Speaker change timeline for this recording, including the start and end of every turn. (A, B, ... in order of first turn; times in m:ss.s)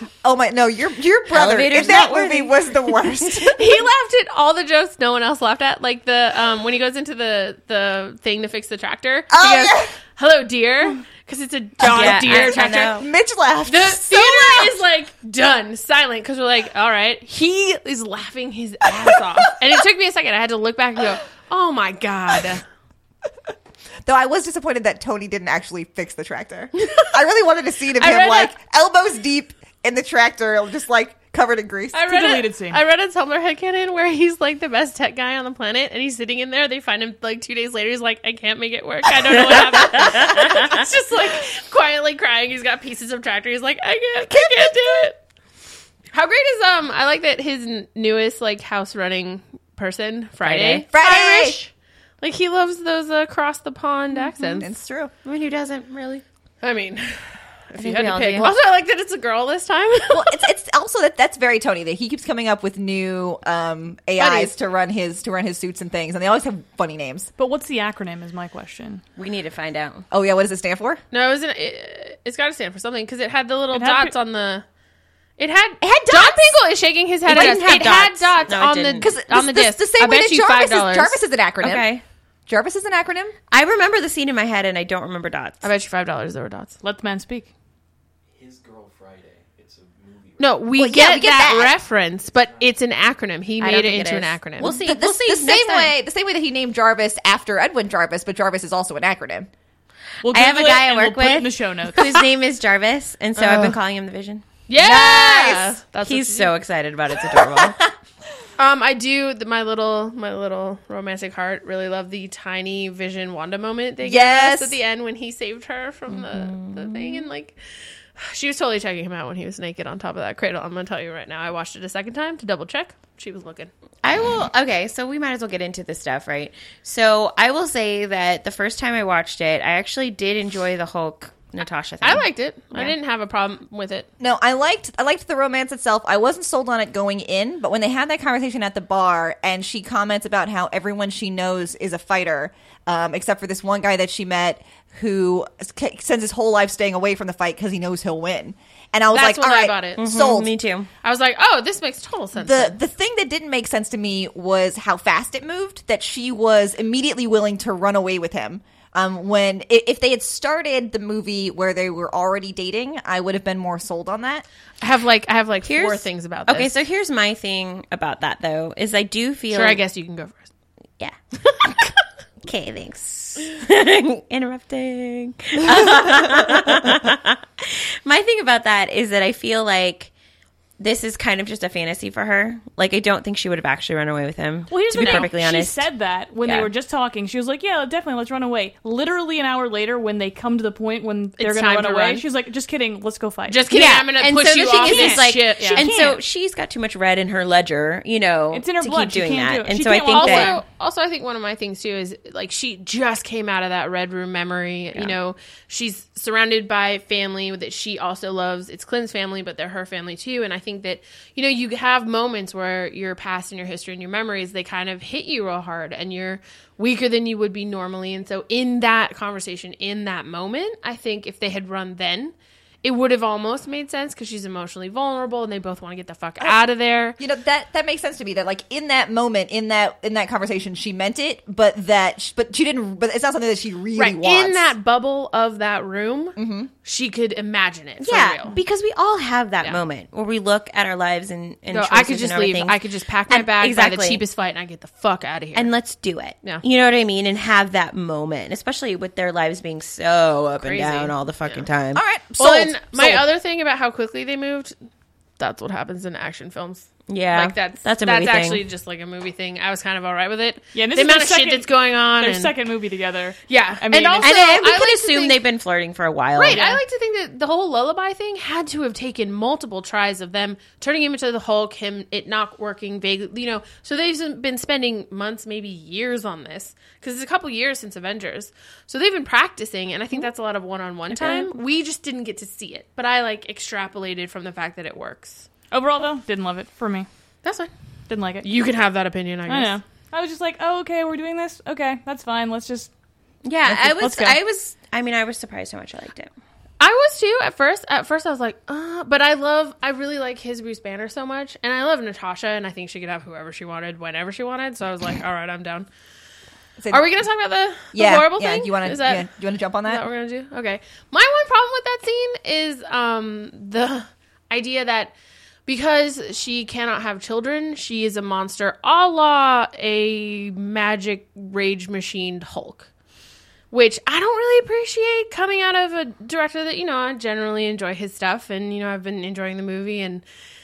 0:00.2-0:03.8 A
0:01.3-0:02.6 B
0:03.4-0:13.0 C
0:09.3-0:09.9 A
0:11.8-0:13.1 B
0:11.8-0:14.8 A
0:13.7-0:22.6 C
0:24.1-0:32.0 A
0:28.0-0:28.5 C
0:31.9-0:45.2 C
0:32.1-0:32.8 D
0:39.7-0:40.7 B
0:44.3-0:45.1 A
0:46.1-0:51.7 C
0:50.4-0:50.9 B
0:50.9-0:51.6 A
0:52.2-0:54.7 C
0:54.6-0:55.1 A
0:55.2-0:56.2 B
0:56.6-1:00.4 C
0:57.8-0:58.5 B
1:00.1-1:07.3 A
1:04.2-1:04.5 C
1:07.4-1:09.0 D
1:09.2-1:10.0 B
1:10.1-1:11.0 A
1:11.1-1:14.6 C
1:13.7-1:14.1 D
1:15.4-1:21.2 C
1:15.8-1:16.6 A
1:17.3-1:18.1 A
1:17.3-1:19.1 B
1:19.0-1:21.9 A
1:21.6-1:22.0 B
1:22.5-1:23.4 A
1:23.5-1:25.7 B
1:25.6-1:26.8 C
1:26.8-1:27.5 D
1:28.3-1:30.7 E
1:30.4-1:34.8 C
1:30.8-1:31.8 A
1:32.2-1:32.8 E
1:33.6-1:35.9 B
1:34.6-1:39.5 A
1:40.2-1:42.2 D
1:40.3-1:47.8 B
1:43.4-1:43.7 C
1:44.7-1:46.5 C
1:44.8-1:45.7 A
1:47.3-1:47.7 A
1:48.6-1:57.6 C
1:54.0-1:54.8 A
1:56.1-1:57.3 B
1:58.2-2:03.7 C
2:04.0-2:12.3 B
2:12.0-2:14.1 C
2:14.2-2:30.5 A
2:29.1-2:30.0 C
2:30.0-2:30.9 B
2:31.0-2:32.7 C
2:32.4-2:44.4 A
2:44.8-2:46.7 C
2:45.6-2:49.8 B
2:49.5-2:50.5 C
2:52.4-3:00.1 B
3:00.8-3:05.8 B
3:04.7-3:13.7 D
3:05.0-3:05.3 C
3:06.4-3:06.7 B
3:11.4-3:12.2 C
3:13.5-3:15.9 C
3:13.7-3:20.6 B
3:14.8-3:16.2 D
3:18.5-3:20.6 D
3:20.1-3:47.2 C
3:47.2-3:54.7 A
3:54.0-3:58.6 C
3:56.4-3:56.7 A
3:58.0-4:04.2 B
4:01.7-4:05.7 C
4:05.5-4:12.0 B
4:10.6-4:11.7 C
4:12.0-4:13.2 A
4:12.4-4:14.7 C
4:15.4-4:22.5 C
4:17.1-4:18.6 B
4:20.7-4:24.4 D
4:23.5-4:25.4 C
4:24.2-4:26.7 B
4:26.4-4:45.5 C
4:26.5-4:26.8 D
4:41.1-4:41.5 D
4:45.7-4:47.1 D
4:47.4-4:47.7 C
4:48.1-4:48.5 D
4:48.4-4:49.8 C
4:49.5-4:52.9 D
4:53.4-4:56.3 B
4:53.7-4:54.4 D
4:56.8-5:05.9 C
5:06.9-5:09.2 C
5:07.9-5:10.0 A
5:09.8-5:15.1 C
5:15.7-5:22.9 C
5:23.7-5:30.2 C